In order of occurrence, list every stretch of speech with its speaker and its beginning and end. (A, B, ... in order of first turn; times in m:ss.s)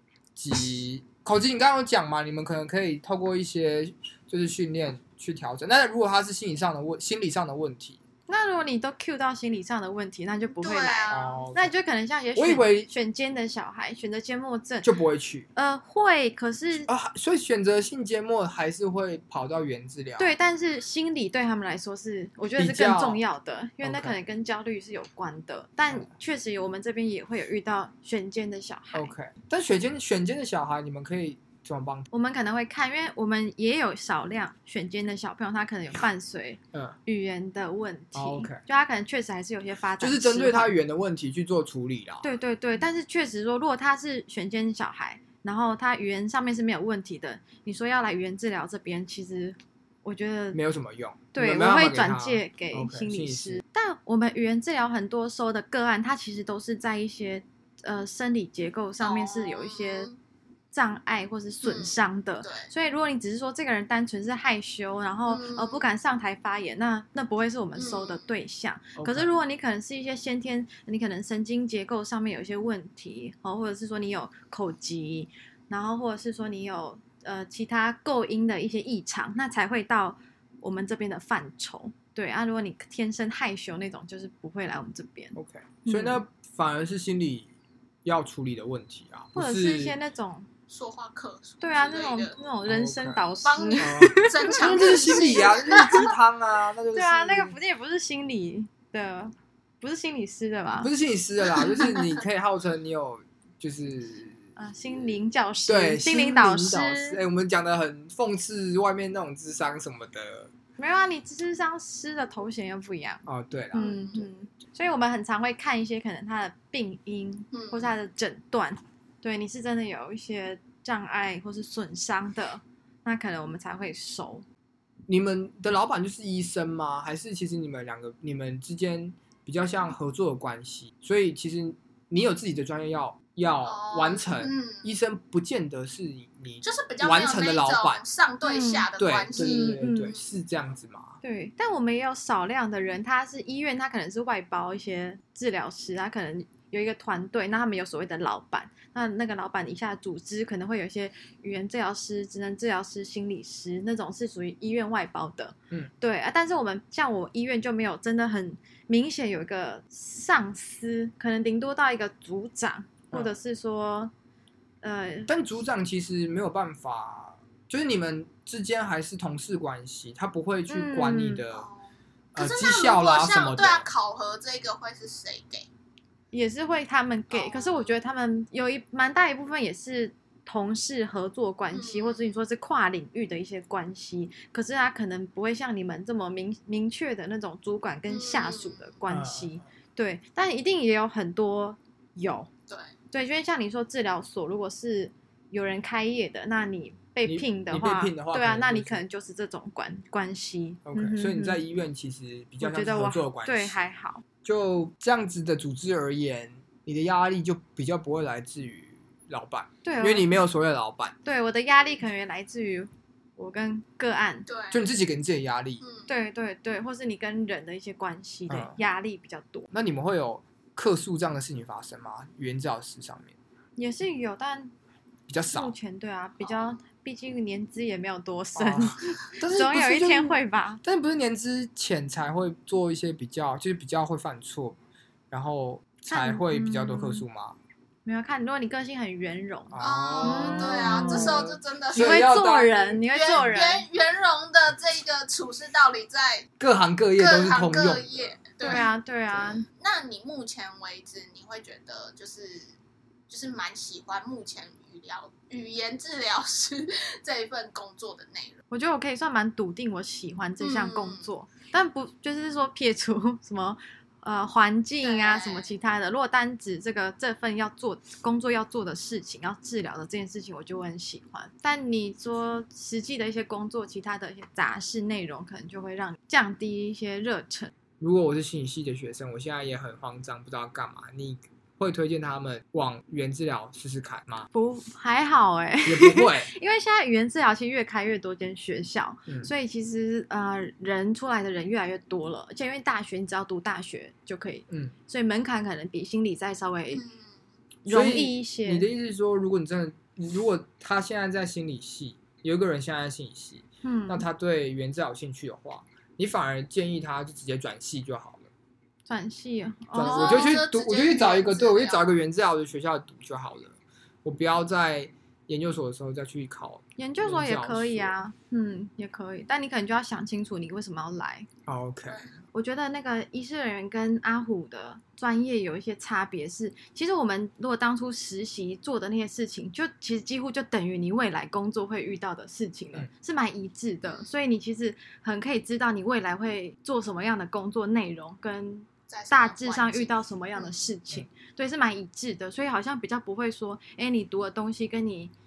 0:00.4-0:08.0 A
0:08.3-0:14.9 B
0:10.6-0:11.3 C
0:11.1-0:11.7 A
0:12.4-0:12.9 A
0:14.8-0:15.5 A
0:15.5-0:16.9 B
0:16.8-0:20.3 A
0:20.2-0:29.1 B
0:22.6-0:23.2 A
0:23.8-0:24.2 A
0:28.9-0:32.1 A
0:32.1-0:40.7 B
0:38.1-0:38.6 A
0:40.0-0:42.3 A
0:42.2-0:50.6 B
0:50.5-0:53.6 A
0:51.3-1:00.1 B
0:59.0-1:00.2 C
1:00.7-1:26.2 B
1:01.6-1:02.7 C
1:05.3-1:05.8 C
1:07.8-1:08.3 C
1:09.0-1:09.3 A
1:25.4-1:27.5 A
1:28.0-1:30.0 A
1:29.4-1:30.5 B
1:30.7-1:32.4 C
1:31.6-1:36.1 B
1:32.6-1:37.6 A
1:33.4-1:36.0 C
1:36.9-1:40.9 B
1:40.8-1:44.4 A
1:41.6-1:42.0 B
1:44.6-1:47.2 B
1:45.7-1:50.5 A
1:50.8-2:04.4 B
1:53.2-1:54.0 A
1:53.8-1:54.3 C
1:57.5-1:57.9 C
2:05.1-2:18.0 A
2:13.6-2:14.9 C
2:16.6-2:20.2 C
2:18.4-2:20.2 B
2:19.0-2:21.2 A
2:21.2-2:44.1 B
2:44.8-2:45.3 B
2:45.3-2:51.7 A
2:50.7-2:51.5 B
2:51.5-2:55.7 C
2:52.4-2:53.9 A
2:56.3-3:12.5 B
2:57.3-2:58.0 C
3:01.7-3:02.4 C
3:08.1-3:08.9 C
3:09.1-3:09.6 A
3:12.7-3:12.9 C
3:13.1-3:21.6 B
3:17.2-3:19.0 A
3:20.9-3:23.8 A
3:22.6-3:24.2 B
3:24.4-3:31.1 A
3:29.8-3:30.3 B
3:31.2-3:34.5 B
3:34.5-3:34.8 C
3:34.7-3:35.8 A
3:35.8-3:36.1 C
3:36.1-3:39.7 B
3:38.5-3:38.8 A
3:39.7-3:43.4 A
3:43.8-3:44.7 B
3:45.3-3:45.8 A
3:45.5-3:50.8 B
3:46.4-3:46.8 C
3:48.5-3:54.8 A
3:55.3-3:57.6 A
3:56.1-3:57.2 B
3:58.0-4:03.9 B
3:59.7-4:03.0 A
3:59.8-4:02.2 C
4:03.1-4:06.5 C
4:06.6-4:08.4 A
4:07.2-4:08.8 C
4:08.6-4:09.6 B
4:09.4-4:12.7 C
4:13.3-4:18.6 C
4:18.7-4:37.7 B
4:20.6-4:21.3 C
4:25.0-4:25.7 C
4:38.0-4:44.5 A
4:44.5-4:57.0 B
4:45.8-4:46.5 A
4:56.9-4:57.3 C
4:57.8-4:58.9 B
4:57.9-5:08.5 A
5:03.8-5:04.3 B
5:09.1-5:10.6 B
5:09.9-5:18.2 A
5:10.0-5:12.1 C
5:17.0-5:21.5 B
5:21.7-5:22.2 A
5:22.5-5:45.3 B
5:34.0-5:34.3 C
5:39.1-5:40.9 C